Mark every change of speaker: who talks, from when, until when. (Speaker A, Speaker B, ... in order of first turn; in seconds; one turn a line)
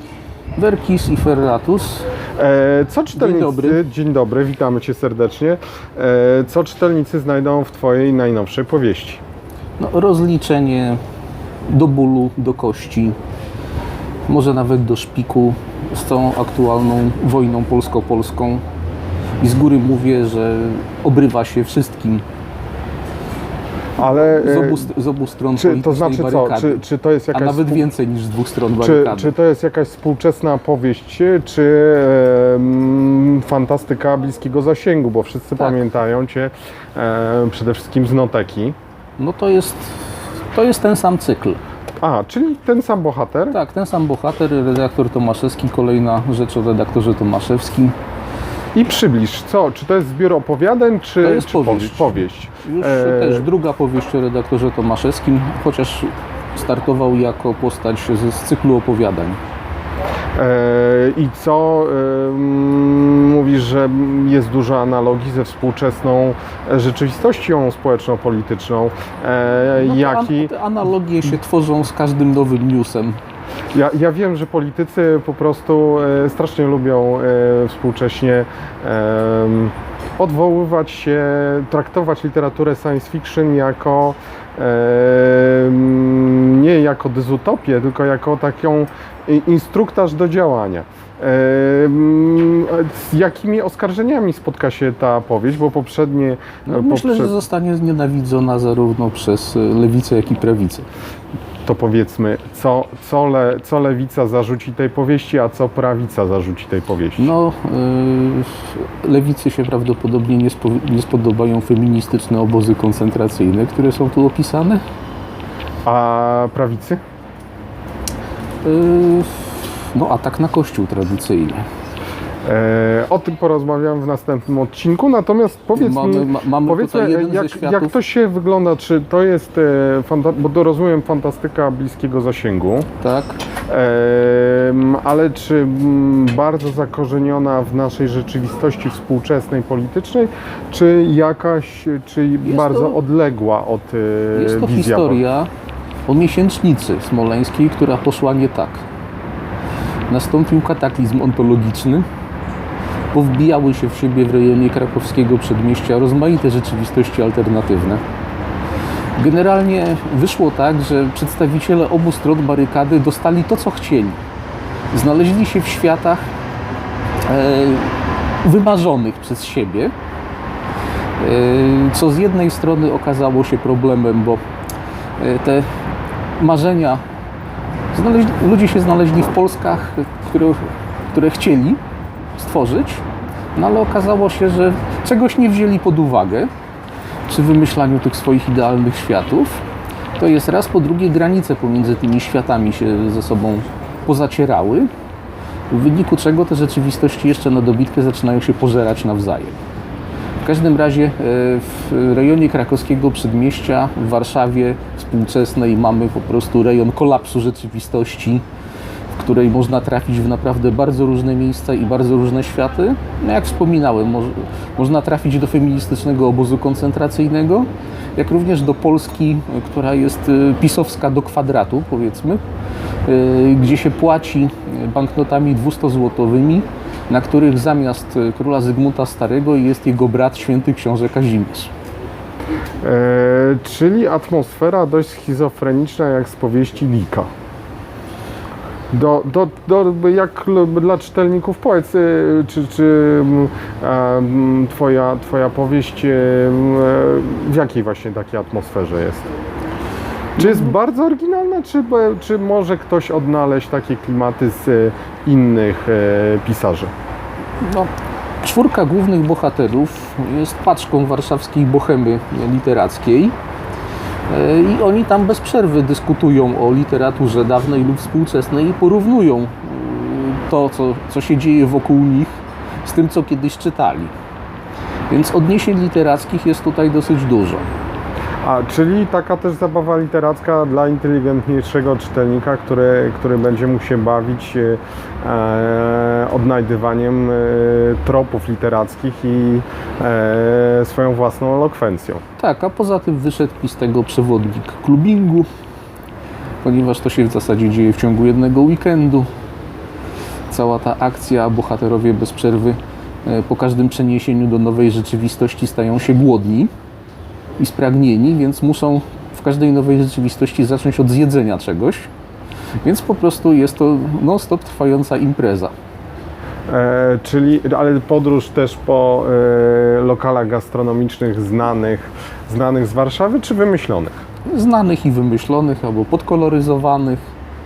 Speaker A: 0.6-2.1
Speaker B: 2.4-9.2
Speaker A: 3.1-3.8
Speaker A: 9.8-11.0
Speaker A: 11.7-13.2
Speaker A: 14.3-18.6
Speaker A: 19.4-22.2
Speaker B: 24.0-24.9
Speaker A: 24.1-29.3
Speaker B: 25.5-27.9
Speaker B: 28.8-38.8
Speaker A: 39.2-41.6
Speaker B: 42.0-43.6
Speaker A: 43.5-48.0
Speaker B: 48.7-53.5
Speaker A: 51.2-59.4
Speaker B: 60.4-70.5
Speaker A: 69.8-73.2
Speaker B: 73.7-97.3
Speaker A: 96.7-100.9
Speaker B: 101.6-107.3
Speaker A: 107.2-114.8
Speaker B: 115.8-117.0
Speaker A: 118.6-121.7
Speaker B: 122.5-132.9
Speaker A: 125.7-127.9
Speaker A: 133.0-133.4
Speaker B: 133.7-145.2
Speaker A: 142.4-143.0
Speaker A: 144.3-145.5
Speaker A: 146.1-148.8
Speaker A: 150.1-152.1
Speaker A: 153.1-158.0
Speaker A: 159.2-164.2
Speaker A: 164.9-166.3
Speaker A: 167.2-169.9
Speaker A: 171.2-174.4
Speaker A: 175.2-175.7
Speaker A: 176.4-177.0
Speaker A: 177.9-181.8
Speaker A: 182.3-183.0
Speaker A: 183.5-186.5
Speaker A: 187.3-189.6
Speaker A: 190.2-194.9
Speaker A: 195.7-199.6
Speaker A: 200.4-208.4
Speaker A: 209.1-222.4
Speaker A: 223.1-231.7
Speaker B: 232.8-237.3
Speaker B: 238.9-249.3
Speaker A: 250.4-250.7
Speaker B: 250.4-256.9
Speaker A: 257.6-257.9
Speaker A: 258.4-263.3
Speaker A: 264.3-274.1
Speaker A: 275.1-277.7
Speaker B: 278.4-292.2
Speaker A: 292.4-295.5
Speaker A: 296.6-299.3
Speaker A: 300.5-306.7
Speaker A: 307.6-312.1
Speaker A: 312.8-315.7
Speaker B: 316.7-324.2
Speaker A: 324.4-327.2